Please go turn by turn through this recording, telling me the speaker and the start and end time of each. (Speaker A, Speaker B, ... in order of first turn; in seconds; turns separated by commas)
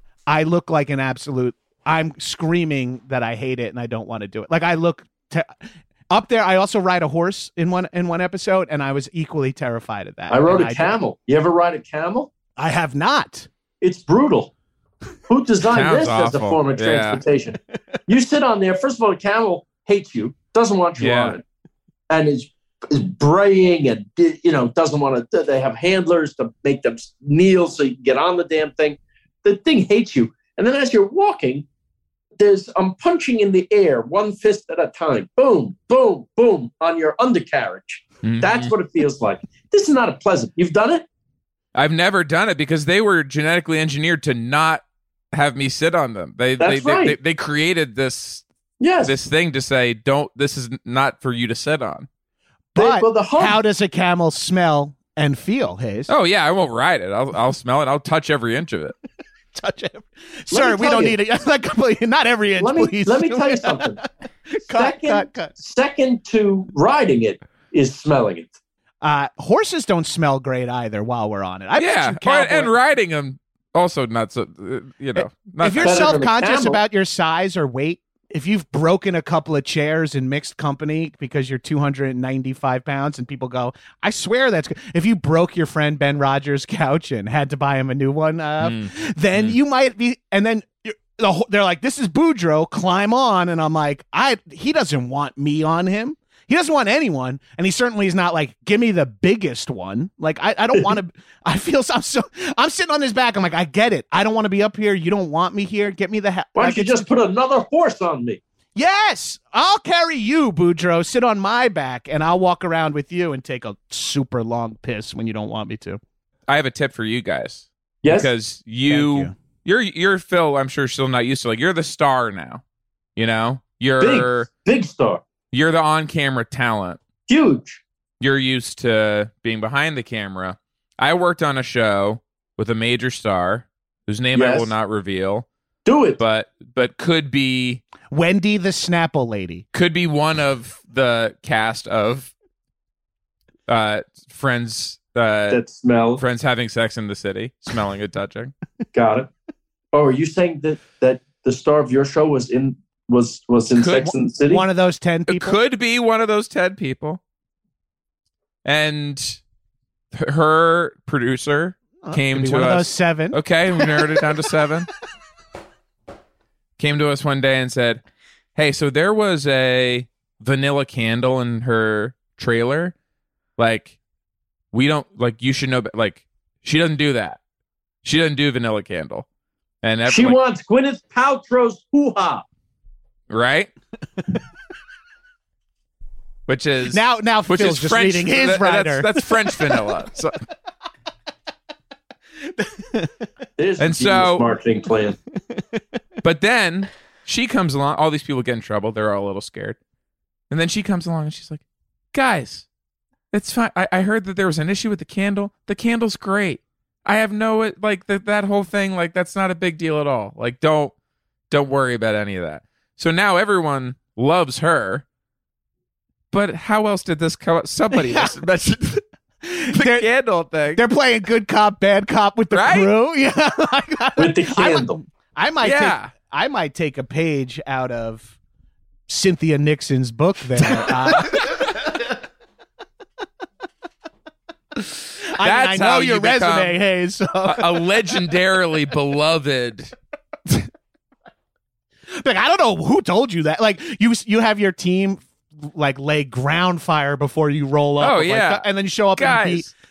Speaker A: 0.3-5.5, Speaker A: 6.1-10.9, Speaker B: 10.3-12.3, Speaker A: 12.6-13.5, Speaker B: 13.8-14.5, Speaker B: 15.3-21.4, Speaker C: 15.6-17.2, Speaker C: 21.0-21.4, Speaker B: 22.1-31.7, Speaker B: 32.4-41.1, Speaker C: 38.2-38.7, Speaker C: 41.8-48.4, Speaker B: 46.6-47.2, Speaker B: 48.8-49.1, Speaker C: 49.0-52.1, Speaker A: 52.8-56.1, Speaker B: 52.8-53.6, Speaker C: 56.1-59.0, Speaker A: 59.5-65.5, Speaker B: 60.5-61.2, Speaker B: 62.6-64.0, Speaker B: 64.7-68.5, Speaker A: 69.0-72.7, Speaker C: 71.8-76.2, Speaker A: 75.2-107.1, Speaker B: 75.8-76.8, Speaker C: 88.6-89.6, Speaker B: 106.5-108.4, Speaker A: 108.8-116.0, Speaker C: 116.5-122.6, Speaker B: 118.0-118.3, Speaker A: 118.9-119.3, Speaker C: 123.2-124.5, Speaker B: 124.0-125.2, Speaker C: 125.5-127.0, Speaker B: 127.3-127.8, Speaker C: 128.2-135.5, Speaker B: 134.3-134.7, Speaker B: 135.9-136.2, Speaker C: 136.2-137.8, Speaker A: 138.1-139.6, Speaker C: 139.7-142.3, Speaker C: 143.7-145.6, Speaker B: 145.5-146.2, Speaker C: 146.2-148.5, Speaker B: 148.9-149.3, Speaker B: 149.9-154.7, Speaker C: 153.8-154.1, Speaker A: 154.0-155.6, Speaker C: 155.3-157.2, Speaker C: 158.7-159.4, Speaker C: 160.1-164.9, Speaker A: 162.0-164.4, Speaker C: 166.8-168.0, Speaker C: 168.6-172.9, Speaker C: 173.6-174.0, Speaker C: 174.7-177.4, Speaker C: 178.0-179.3, Speaker C: 179.8-180.4, Speaker B: 180.1-182.4, Speaker C: 183.3-183.7, Speaker C: 186.5-190.4, Speaker A: 186.9-189.7, Speaker A: 192.6-193.2, Speaker B: 193.6-195.2, Speaker C: 193.8-194.5, Speaker C: 196.2-199.8, Speaker C: 200.5-202.7, Speaker C: 203.3-210.9, Speaker C: 211.5-215.1, Speaker C: 216.3-219.0, Speaker A: 217.9-218.3, Speaker A: 219.5-220.1, Speaker C: 219.7-220.8, Speaker A: 220.7-228.3, Speaker C: 222.5-222.9, Speaker B: 224.2-225.0, Speaker C: 225.6-226.1, Speaker A: 229.1-231.8, Speaker C: 230.6-231.7, Speaker A: 235.4-237.8, Speaker C: 235.4-236.8, Speaker C: 237.4-239.9, Speaker A: 242.1-249.7, Speaker C: 248.0-249.7